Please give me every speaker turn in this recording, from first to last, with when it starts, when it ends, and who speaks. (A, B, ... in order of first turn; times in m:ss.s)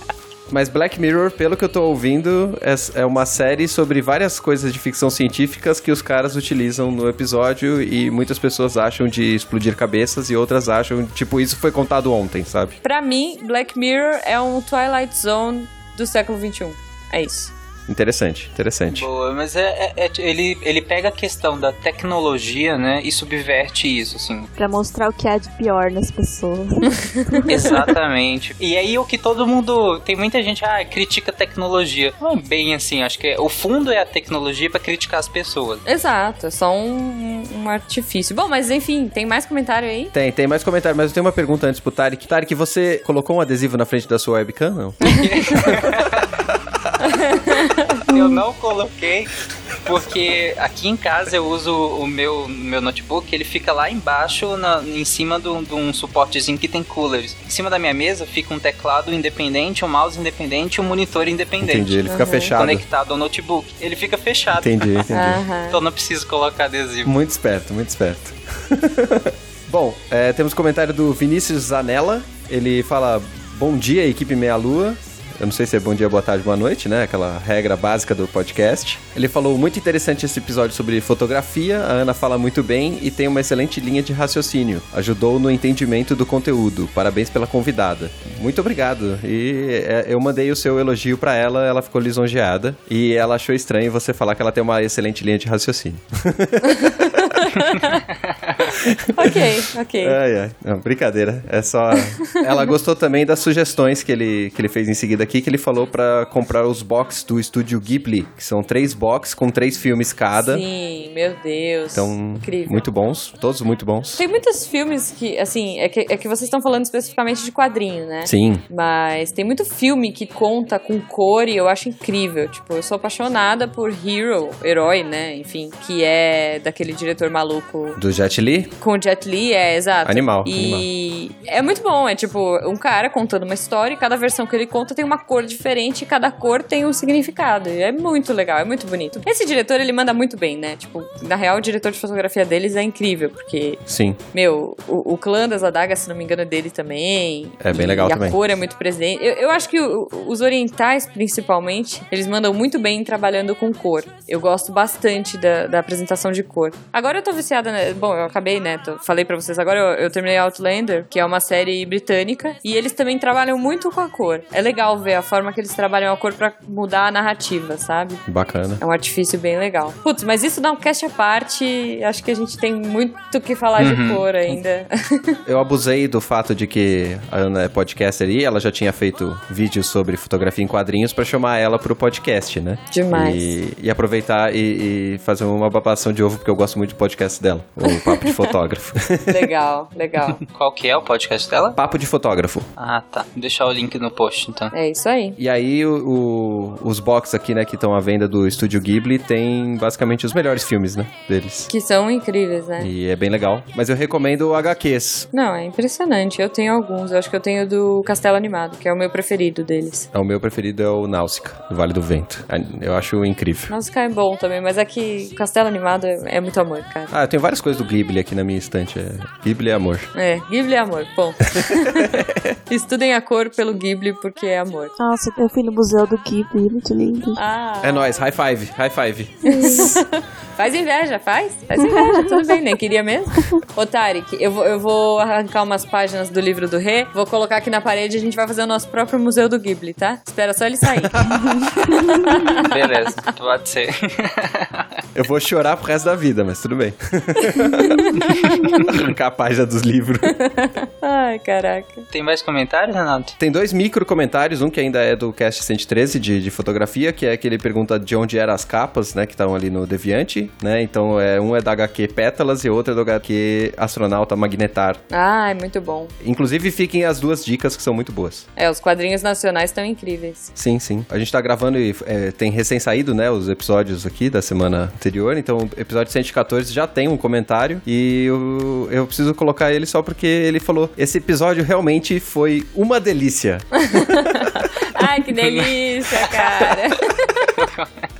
0:00.5-0:12.7 A
0:12.8-0:17.5 B
0:17.9-0:19.1 A
0:18.9-0:24.5 C
0:24.6-0:27.7 D
0:27.5-0:35.8 C
0:35.8-0:40.1 B
0:40.1-0:45.9 A
0:45.0-0:46.3 C
0:47.0-0:48.0 B
0:48.0-1:02.0 C
1:01.6-1:02.8 A
1:02.0-1:02.5 B
1:02.5-1:05.1 C
1:04.6-1:05.4 A
1:05.1-1:05.8 B
1:05.7-1:07.1 C
1:07.0-1:37.2 A
1:36.6-1:38.0 B
1:38.8-1:50.6 A
1:39.1-1:40.2 B
1:42.3-1:42.7 B
1:50.3-1:52.8 B
1:51.9-1:54.2 A
1:54.2-2:08.0 B
1:58.2-1:58.6 A
2:08.0-2:08.7 A
2:08.8-2:48.2 B
2:10.0-2:10.9 A
2:23.9-2:24.2 A
2:27.6-2:28.4 A
2:48.3-2:48.8 A
2:48.8-2:55.4 B
2:53.8-2:54.3 C
2:55.4-3:09.4 A
3:02.9-3:03.5 B
3:07.9-3:08.5 B
3:09.3-3:10.4 B
3:10.4-3:11.8 C
3:11.8-3:12.6 A
3:12.8-3:14.7 C
3:14.7-3:15.4 B
3:15.4-3:21.7 A
3:21.7-3:22.9 B
3:22.8-3:25.3 A
3:25.3-3:30.1 B
3:30.1-3:33.7 A
3:33.7-3:37.1 B
3:37.1-3:40.1 A
3:40.1-3:44.9 B
3:41.5-3:42.5 A
3:45.0-3:47.4 D
3:47.4-3:48.2 B
3:47.8-3:49.8 A
3:49.4-4:02.7 B
3:51.8-3:52.2 D
4:01.0-4:01.8 A
4:02.5-4:04.8 C
4:05.1-4:10.4 A
4:07.6-4:08.8 B
4:10.3-4:12.0 B
4:12.1-4:13.4 C
4:13.4-4:25.0 A
4:25.1-4:26.1 B
4:26.2-4:28.5 A
4:28.6-4:30.5 B
4:30.6-4:44.5 A
4:43.8-4:47.5 B
4:46.2-4:46.5 C
4:47.6-4:48.1 C